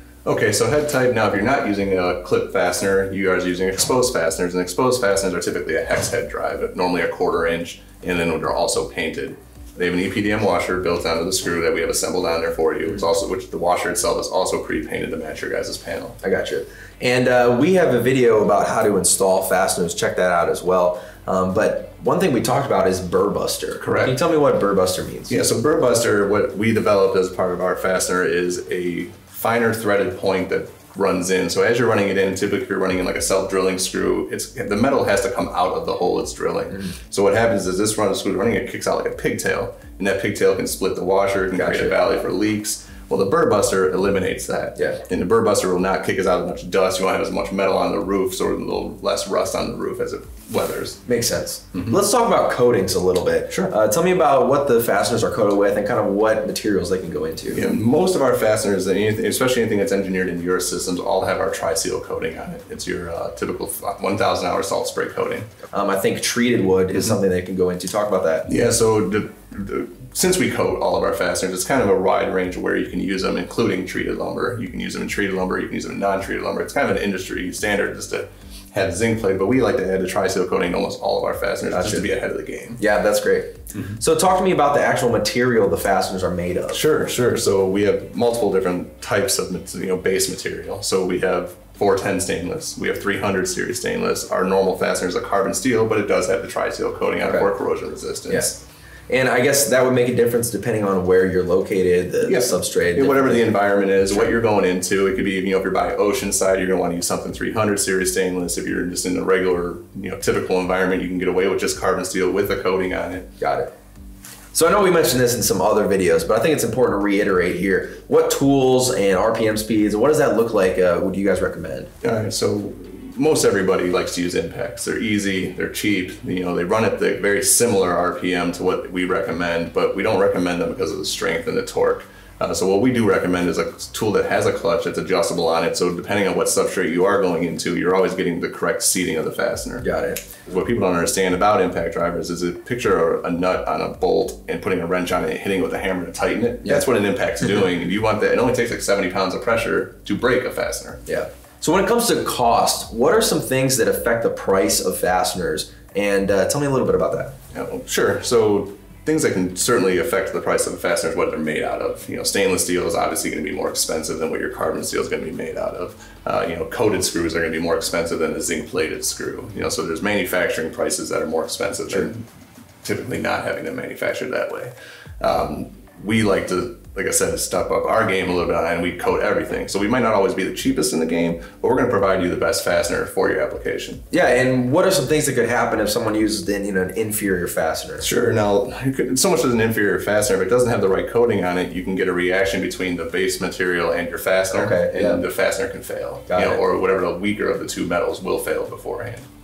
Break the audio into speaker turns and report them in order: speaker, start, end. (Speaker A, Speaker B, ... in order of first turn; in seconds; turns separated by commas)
Speaker A: 0.2-16.2, Speaker B: 16.2-25.4, Speaker A: 23.8-24.1, Speaker A: 25.3-51.0, Speaker B: 41.5-41.9, Speaker B: 51.0-57.6, Speaker A: 57.5-65.5, Speaker B: 65.7-68.5, Speaker A: 68.5-82.8, Speaker B: 81.7-82.1, Speaker B: 82.8-86.8, Speaker A: 86.7-98.6, Speaker B: 97.2-97.5, Speaker B: 99.1-104.3, Speaker A: 102.2-113.3, Speaker B: 113.4-113.7, Speaker B: 114.5-121.9, Speaker A: 122.0-139.8, Speaker B: 139.8-140.2, Speaker A: 140.4-151.0, Speaker B: 151.1-157.3, Speaker A: 157.5-172.2, Speaker A: 172.8-184.0, Speaker B: 184.1-188.1, Speaker A: 188.0-199.3, Speaker B: 194.5-195.2, Speaker B: 196.3-196.6